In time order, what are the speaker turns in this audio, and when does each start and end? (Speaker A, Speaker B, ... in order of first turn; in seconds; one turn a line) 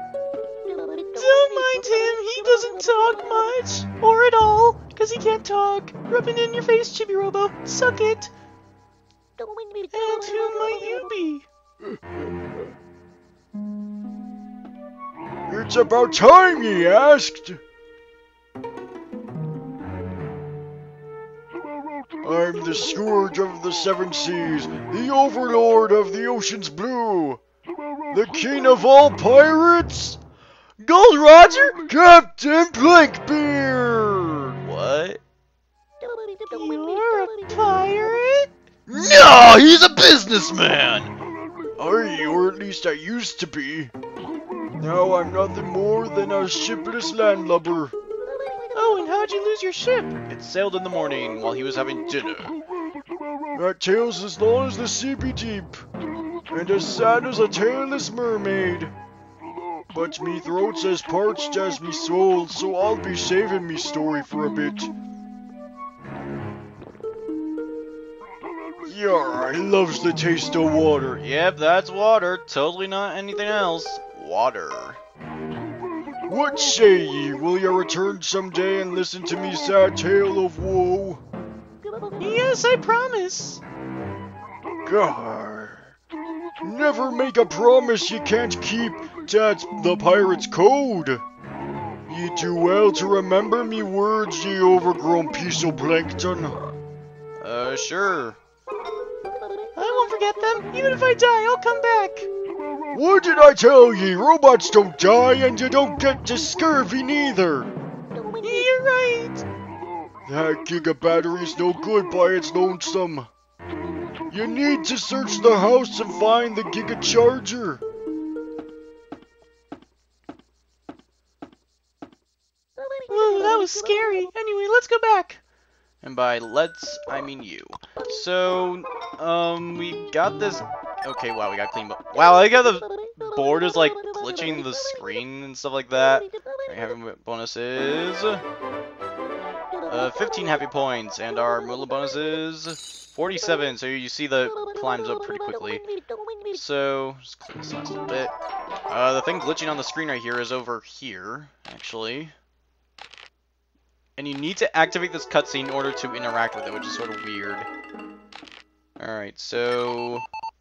Speaker A: 1.1-8.3
Speaker A: 9.9-11.5
Speaker B: 15.5-17.6
Speaker B: 22.2-27.4
Speaker B: 28.1-30.2
Speaker B: 30.8-34.6
Speaker A: 34.6-35.2
Speaker A: 36.5-38.5
Speaker B: 38.9-41.1
Speaker B: 41.8-43.9
Speaker B: 44.8-48.0
Speaker A: 48.7-52.6
Speaker B: 53.5-55.8
Speaker B: 56.5-58.9
Speaker B: 59.9-64.9
Speaker B: 68.8-71.2
Speaker A: 71.2-75.0
Speaker B: 76.3-81.2
Speaker A: 82.2-83.6
Speaker B: 84.9-85.9
Speaker B: 86.6-91.2
Speaker B: 92.1-96.6
Speaker A: 97.4-98.4
Speaker A: 99.8-102.3
Speaker B: 102.9-107.7
Speaker A: 108.4-109.5
Speaker B: 110.2-113.3
Speaker B: 114.3-117.8
Speaker A: 123.1-125.4
Speaker A: 126.0-138.4
Speaker A: 139.9-145.9
Speaker A: 146.5-148.3
Speaker A: 148.9-152.3
Speaker A: 154.2-157.7
Speaker A: 159.0-160.3